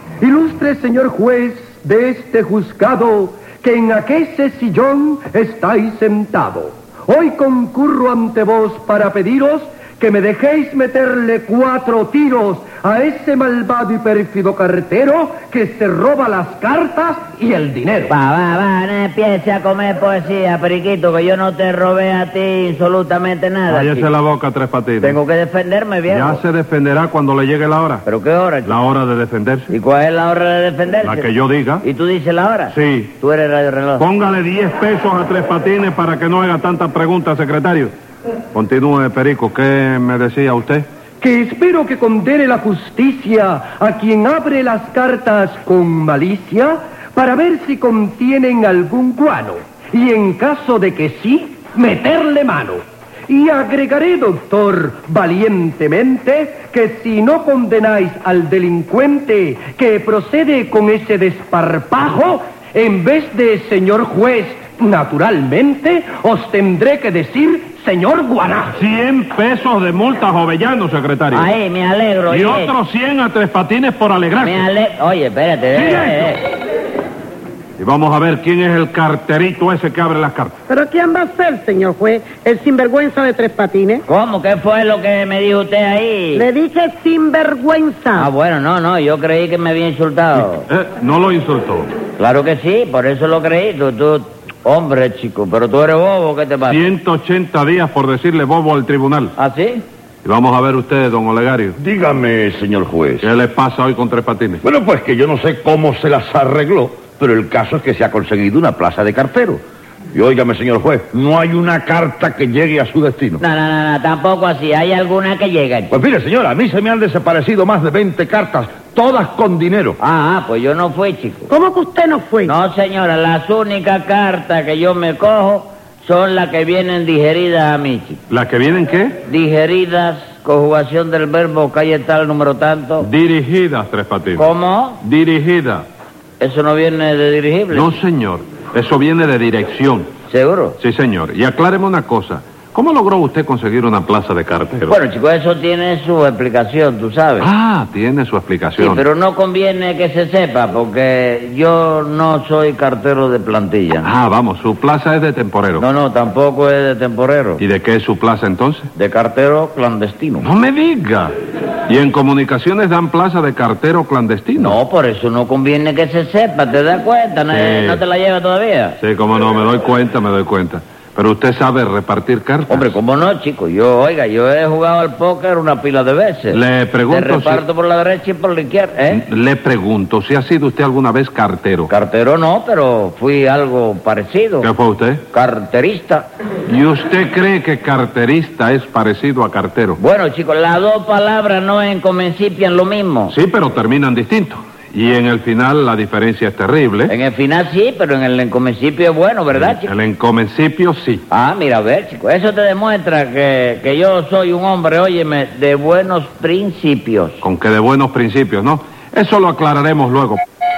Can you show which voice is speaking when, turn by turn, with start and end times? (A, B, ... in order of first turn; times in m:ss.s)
0:00.2-0:18.1 A
0:18.1-0:24.1 B
0:23.7-0:25.2 C
0:25.0-0:26.4 B
0:26.1-0:28.0 C
0:28.0-0:28.7 B
0:28.6-0:29.7 C
0:29.7-0:31.2 B
0:31.0-0:31.8 C
0:31.8-0:34.0 B
0:32.7-0:33.1 C
0:34.0-0:37.9 C
0:38.5-0:40.8 C
0:41.2-1:08.7 A
1:08.7-1:11.5 C
1:11.3-1:12.7 B
1:12.3-1:14.6 C
1:14.4-1:16.4 B
1:15.7-1:16.3 C
1:17.8-1:20.5 C
1:20.7-1:24.0 D
1:24.0-1:26.4 B
1:26.3-1:28.3 D
1:28.1-1:30.7 B
1:30.4-1:31.9 C
1:32.2-1:36.9 B
1:36.7-1:39.3 C
1:39.4-1:39.8 B
1:40.2-1:41.8 C
1:41.8-1:43.3 E
1:43.2-1:44.6 C
1:44.6-1:49.6 E
1:50.1-1:53.4 E
1:53.4-1:55.9 B
1:55.9-2:00.0 E
2:00.0-2:01.5 B
2:01.5-2:02.5 D
2:02.4-2:08.2 B
2:08.3-2:09.2 C
2:09.2-2:13.1 B
2:13.0-2:14.5 C
2:14.4-2:15.0 B
2:15.0-2:15.8 C
2:16.4-2:17.9 B
2:17.7-2:20.1 C
2:20.3-2:20.8 B
2:20.8-2:24.9 C
2:24.9-2:27.5 B
2:27.4-2:29.0 C
2:28.8-2:34.1 B
2:34.0-2:35.8 C
2:35.8-2:37.6 B
2:37.6-2:38.9 C
2:39.0-2:40.5 B
2:40.4-2:41.3 C
2:41.9-2:44.8 C
2:44.6-2:49.0 B
2:47.5-2:48.0 C
2:49.0-2:52.9 C
2:52.7-2:56.6 B
2:56.5-2:57.6 C
2:57.1-2:59.2 B
2:59.1-3:01.9 C
3:01.9-3:04.7 B
3:04.6-3:05.2 C
3:05.3-3:06.3 B
3:06.7-3:10.0 C
3:10.0-3:13.3 B
3:13.3-3:17.1 C
3:17.1-3:19.9 B
3:19.5-3:21.2 C
3:21.3-3:27.4 B
3:27.4-3:30.4 C